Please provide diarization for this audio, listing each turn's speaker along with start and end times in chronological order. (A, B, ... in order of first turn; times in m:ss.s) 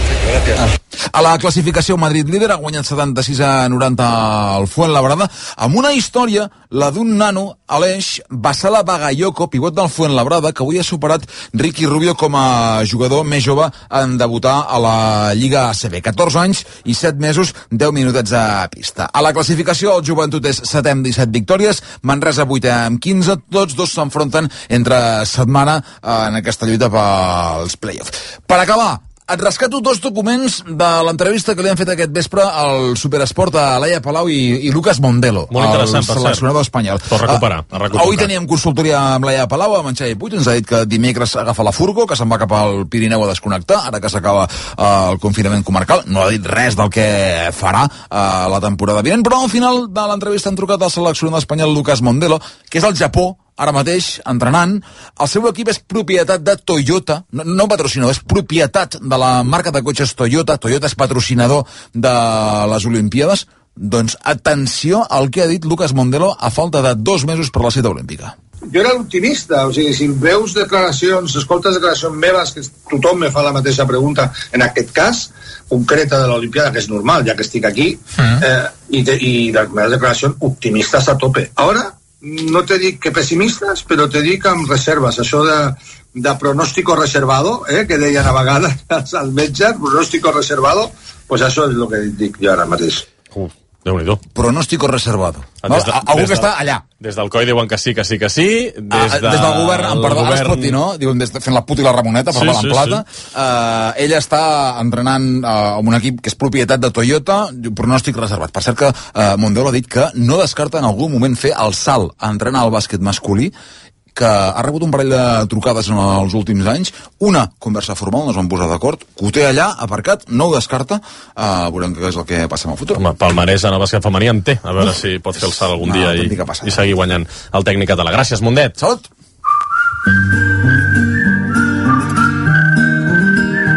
0:01.1-1:08.4 A
0:35.5-0:36.4 B
0:37.1-0:38.3 B
1:08.7-1:33.1 C
1:33.3-1:34.2 B
1:34.3-1:36.8 A
1:35.6-1:36.5 B
1:37.0-1:40.8 B
1:38.9-1:53.5 A
1:42.3-1:43.0 B
1:54.2-2:03.0 A
2:03.0-2:09.0 B
2:05.8-2:06.8 A